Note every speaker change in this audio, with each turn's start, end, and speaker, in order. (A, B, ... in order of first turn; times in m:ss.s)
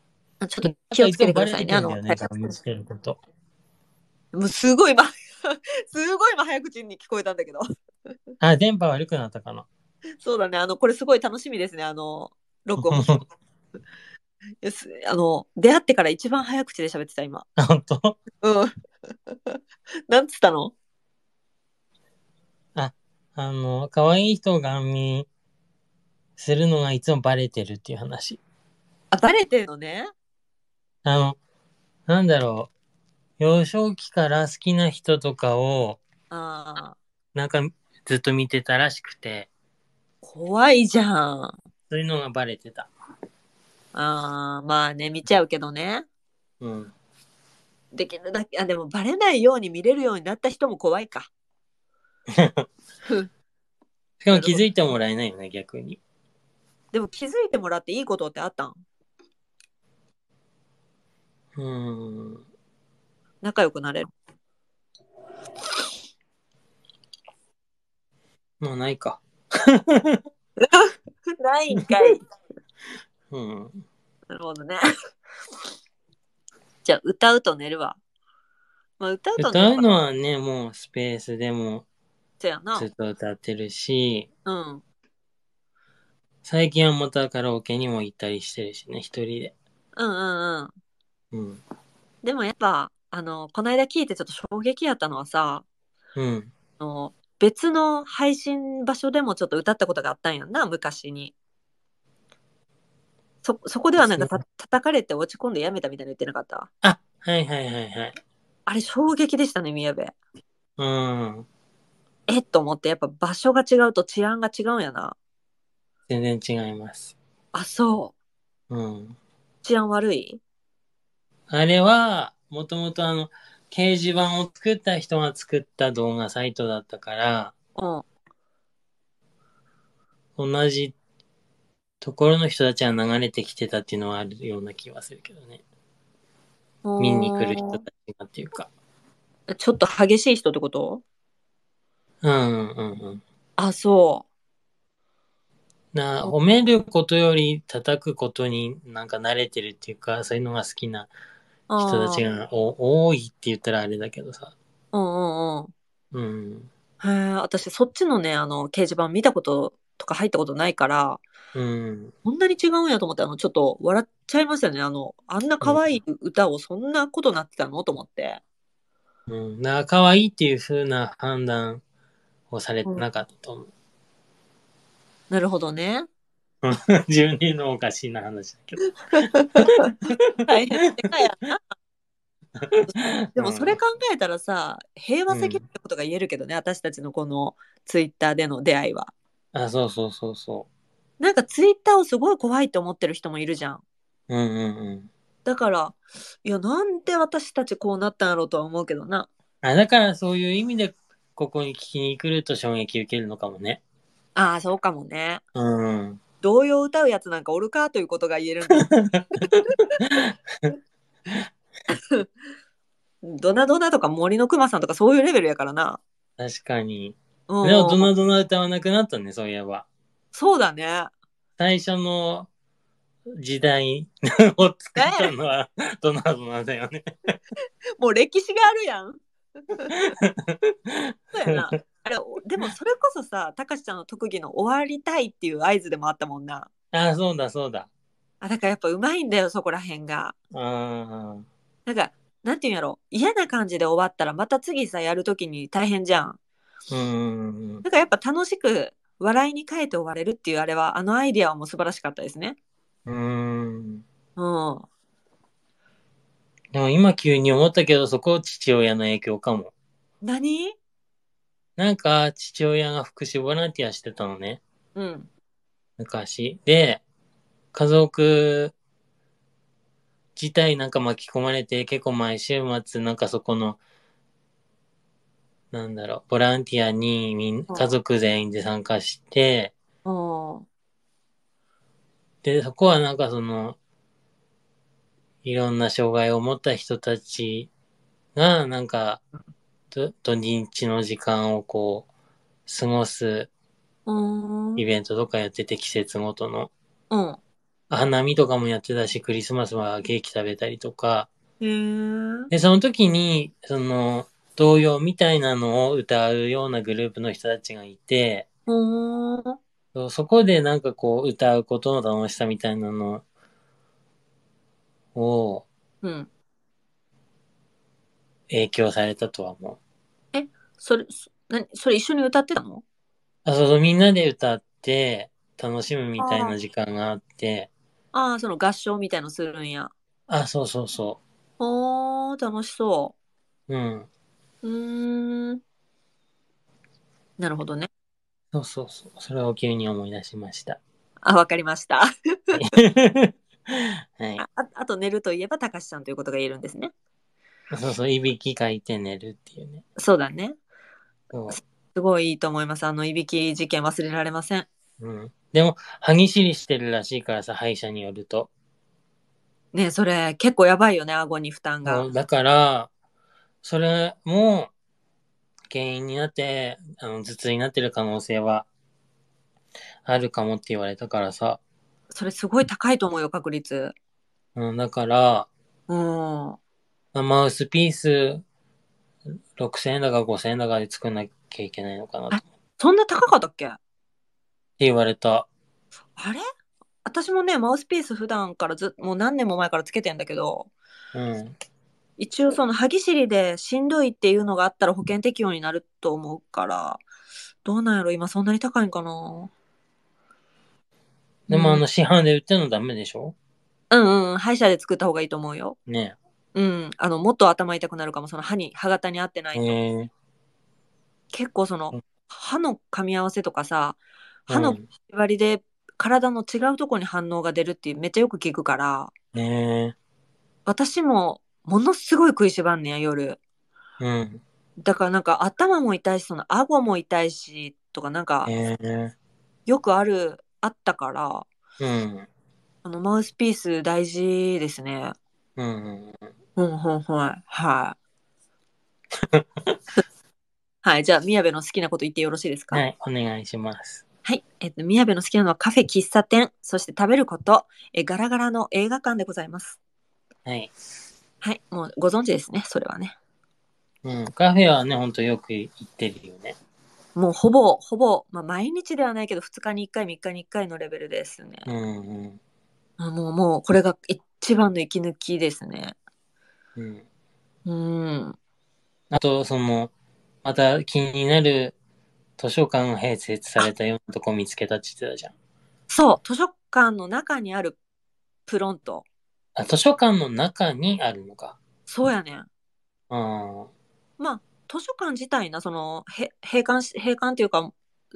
0:00.4-0:02.3 A
0:00.6-0:03.2 B
0:04.3-0:07.6 A
0:08.4-0:09.6 B
0:10.2-0:13.2 A
0:12.8-0:13.2 B
0:14.6-0:17.4 A
0:17.6-0:18.2 B
0:18.4-0:20.7 A
0:22.7-0:25.3 B
0:26.4-0:28.4 B
0:29.1-0:30.1 A
0:31.0-0:31.4 B
0:32.1-0:32.7 B
0:33.4-0:36.0 B
0:36.3-0:37.0 A
0:37.3-0:39.5 B
0:40.2-0:41.5 A
0:41.9-0:42.9 B
0:43.9-0:46.0 A
0:46.6-0:46.9 B
0:47.9-0:51.3 A
0:52.3-0:52.7 B
0:54.2-0:56.0 B
0:54.3-0:54.6 A
0:56.9-0:58.8 A
1:01.6-1:02.4 B
1:03.4-1:04.1 A
1:08.6-1:10.2 B
1:10.6-1:12.2 A
1:13.3-1:13.8 B
1:14.3-1:14.8 A
1:16.8-1:18.0 A
1:19.0-1:19.9 A
1:19.4-1:21.8 B
1:22.4-1:22.9 A
1:22.7-1:24.3 B
1:24.4-1:24.8 A
1:26.4-1:29.5 B
1:30.0-1:30.7 A
1:31.3-1:31.6 B
1:32.2-1:35.6 A
1:36.2-1:36.5 B
1:36.8-1:41.3 A
1:43.4-1:46.7 A
1:44.0-1:44.4 B
1:46.8-1:48.2 B
1:48.7-1:50.1 A
1:50.8-1:51.5 B
1:52.3-1:55.1 A
1:56.1-1:57.1 B
1:57.5-1:58.1 A
1:58.7-1:59.2 B
1:59.6-2:00.4 A
2:01.5-2:07.5 B
2:07.8-2:08.0 A
2:10.4-2:10.9 B
2:12.0-2:15.6 B
2:16.8-2:17.8 A
2:17.0-2:18.7 B
2:19.5-2:21.0 A
2:22.2-2:23.2 B
2:23.6-2:24.2 A
2:25.9-2:31.1 B
2:31.7-2:32.2 A
2:31.8-2:34.5 B
2:34.9-2:35.7 A
2:36.1-2:36.7 B
2:37.0-2:41.2 A
2:41.5-2:42.1 B
2:42.2-2:48.4 A
2:45.6-2:45.9 B
2:49.3-2:51.8 B
2:52.5-2:53.7 B
2:55.3-2:56.1 A
2:56.6-3:01.0 B
2:59.2-2:59.9 A
3:00.4-3:01.6 A
3:02.6-3:03.8 B
3:02.9-3:09.1 A
3:05.3-3:05.6 B
3:09.5-3:10.7 B
3:11.2-3:13.8 A
3:14.3-3:15.1 B
3:15.4-3:19.3 A
3:19.6-3:23.8 B
3:24.4-3:25.4 A
3:25.5-3:26.2 B
3:26.4-3:28.9 A
3:28.8-3:30.8 B
3:31.9-3:32.3 A
3:33.2-3:36.0 A
3:36.4-3:39.8 B
3:37.5-3:38.1 A
3:40.3-3:41.1 A
3:41.6-3:42.5 B
3:43.4-3:47.3 B
3:45.0-3:45.3 A
3:48.0-3:49.2 A
3:49.9-3:51.8 B
3:51.3-3:56.7 A
3:56.9-3:57.9 B
3:58.4-4:00.3 A
4:00.5-4:01.5 B
4:01.8-4:06.4 A
4:06.9-4:07.8 B
4:07.8-4:12.6 A
4:13.0-4:14.0 B
4:14.4-4:14.8 A
4:16.7-4:19.7 B
4:20.2-4:20.8 A
4:21.8-4:24.6 B
4:24.9-4:25.3 A
4:26.0-4:27.0 B
4:27.7-4:28.7 B
4:30.4-4:33.8 B
4:35.7-4:39.7 B
4:40.0-4:40.6 A
4:42.4-4:43.8 B
4:45.4-4:47.7 B
4:48.3-4:49.2 B
4:49.9-4:52.1 B
4:52.6-4:53.5 B
4:54.1-4:54.8 A
4:54.8-4:56.7 B
4:57.1-4:57.4 A
4:57.9-5:01.3 B
5:01.6-5:02.5 A
5:02.5-5:08.5 B
5:08.7-5:09.6 A
5:09.9-5:13.2 B
5:15.1-5:15.7 B
5:16.0-5:16.3 A
5:18.5-5:19.8 B
5:20.3-5:22.8 A
5:23.4-5:27.7 B
5:26.2-5:26.6 A
5:28.1-5:29.9 A
5:30.3-5:31.2 B
5:31.6-5:33.1 A
5:33.7-5:34.1 B
5:34.6-5:35.6 A
5:37.4-5:37.9 A
5:38.5-5:40.8 B
5:41.2-5:42.6 A
5:42.5-5:44.4 B
5:44.4-5:46.9 A
5:47.7-5:49.8 B
5:50.0-5:50.6 A
5:51.3-5:51.6 B
5:51.5-5:54.7 A
5:55.0-5:58.5 B
5:59.7-6:02.0 A
6:01.8-6:02.9 B
6:03.6-6:04.7 B
6:05.7-6:08.7 B
6:10.0-6:11.6 B
6:12.1-6:13.9 A
6:14.6-6:15.5 B
6:15.9-6:16.6 A
6:17.1-6:18.4 B
6:19.6-6:22.4 B
6:22.3-6:23.8 A
6:24.8-6:25.5 B
6:26.2-6:26.4 A
6:27.0-6:30.7 A
6:31.1-6:31.5 B
6:32.2-6:37.0 A
6:37.6-6:39.5 A
6:41.5-6:43.4 B
6:41.5-6:41.8 A
6:43.9-6:45.8 A
6:45.9-6:46.2 B
6:46.5-6:49.8 A
6:49.5-6:50.1 B
6:51.3-6:59.1 A
6:54.5-6:54.9 B
6:59.3-6:59.9 B
7:00.6-7:03.4 A
7:04.0-7:04.4 B
7:04.8-7:08.5 A
7:08.4-7:09.1 B
7:09.7-7:11.5 A
7:11.8-7:12.3 B
7:12.8-7:15.1 A
7:15.6-7:16.3 B
7:16.6-7:18.0 A
7:19.3-7:19.8 B
7:20.8-7:22.8 A
7:22.7-7:24.0 B
7:24.2-7:29.8 A
7:30.4-7:30.7 B
7:31.4-7:33.1 A
7:34.0-7:36.6 B
7:37.2-7:41.6 A
7:41.6-7:42.4 B
7:43.0-7:45.9 A
7:46.8-7:47.0 B
7:47.6-7:48.4 A
7:49.1-7:49.9 B
7:50.4-7:51.7 B
7:52.4-7:55.3 B
7:55.9-7:57.8 A
7:58.5-7:59.0 A
7:59.6-8:01.6 B
8:01.9-8:02.4 A
8:03.1-8:03.7 B
8:04.2-8:07.7 A